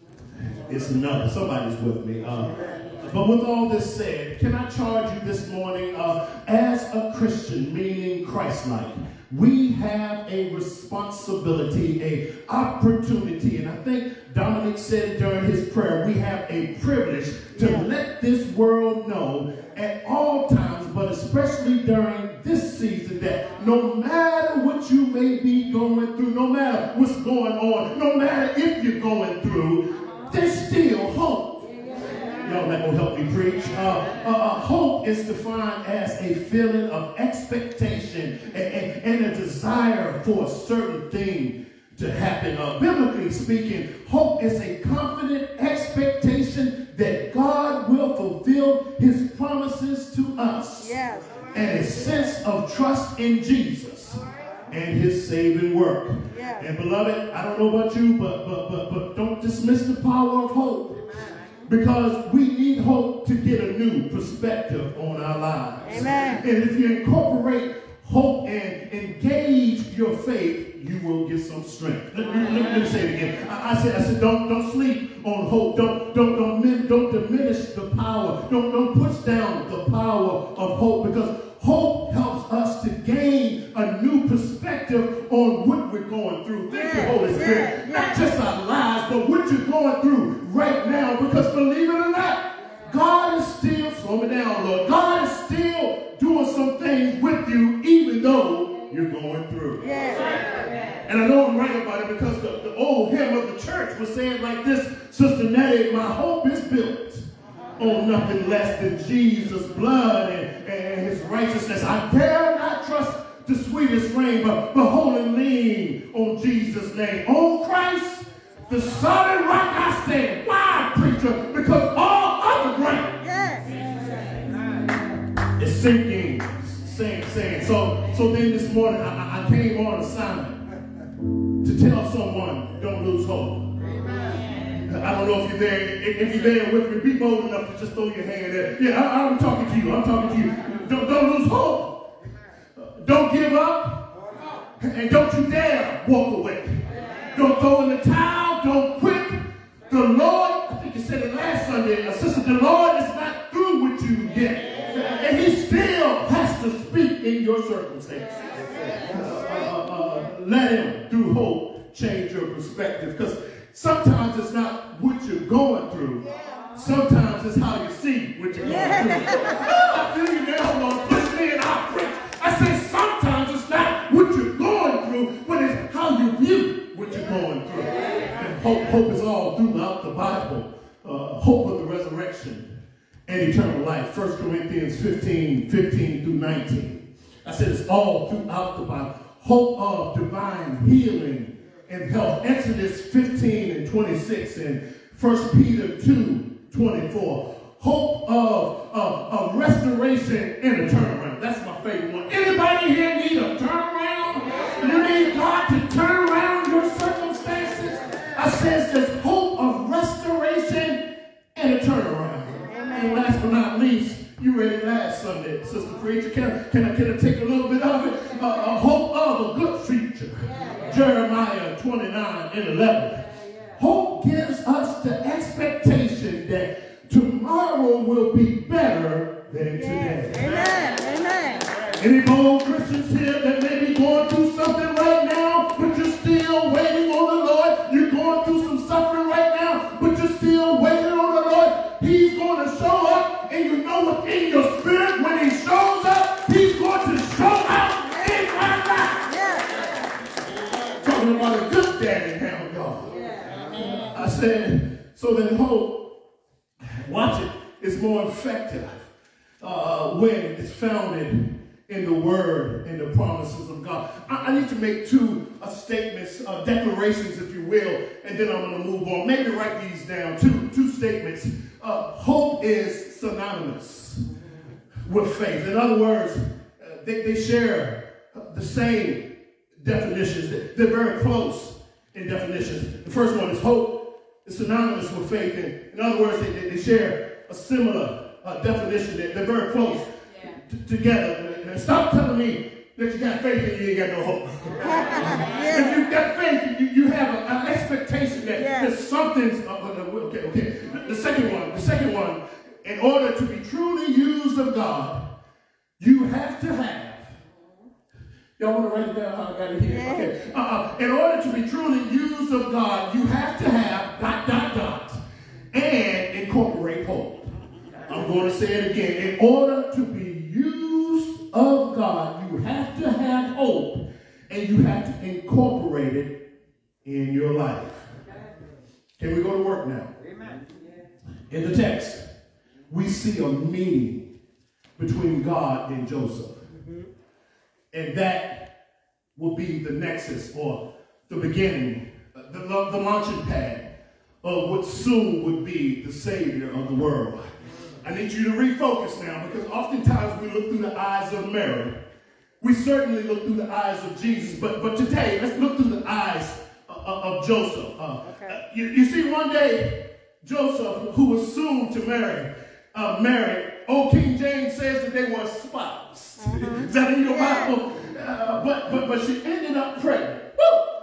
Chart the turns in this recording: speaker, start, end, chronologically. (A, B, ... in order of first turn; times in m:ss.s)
0:00.6-0:31.7 A
0:17.6-0:17.9 B
0:32.4-0:51.0 A
0:50.8-0:51.4 B
0:51.5-1:01.0 A
0:56.3-0:56.7 B
1:01.7-1:39.8 A
1:05.8-1:06.5 B
1:26.7-1:28.2 B
1:39.8-1:40.3 B
1:41.0-1:47.2 A
1:47.8-2:03.2 A
2:03.2-2:03.8 B
2:05.6-2:10.6 A
2:11.6-2:13.7 A
2:14.9-2:22.0 A
2:22.8-2:24.1 A
2:24.8-2:26.7 A
2:27.3-2:38.4 A
2:39.0-3:02.7 A
2:48.6-2:49.6 B
3:03.3-3:31.0 A
3:31.5-3:43.2 A
3:32.7-3:33.2 B
3:40.6-3:41.0 B
3:43.8-3:50.5 A
3:49.8-3:51.8 B
3:52.0-4:09.3 A
4:08.1-4:08.5 B
4:09.2-4:10.1 B
4:11.0-4:13.1 A
4:13.1-4:13.6 B
4:14.1-4:16.0 A
4:17.0-4:19.1 A
4:19.6-4:34.2 A
4:35.0-4:39.3 A
4:39.8-5:05.2 A
4:54.8-4:56.0 B
4:58.5-4:58.9 B
5:06.0-5:07.4 A
5:08.6-5:15.2 A
5:09.8-5:10.3 B
5:15.7-5:17.5 A
5:18.1-5:26.3 A
5:27.0-5:28.1 A
5:29.2-5:30.1 A
5:31.5-5:32.2 A
5:32.9-5:34.3 A
5:35.0-5:36.6 A
5:37.9-5:38.7 A
5:39.4-5:43.9 A
5:44.4-5:47.4 A
5:48.0-5:52.0 A
5:52.6-6:10.8 A
5:58.2-5:58.6 B
6:06.4-6:07.7 B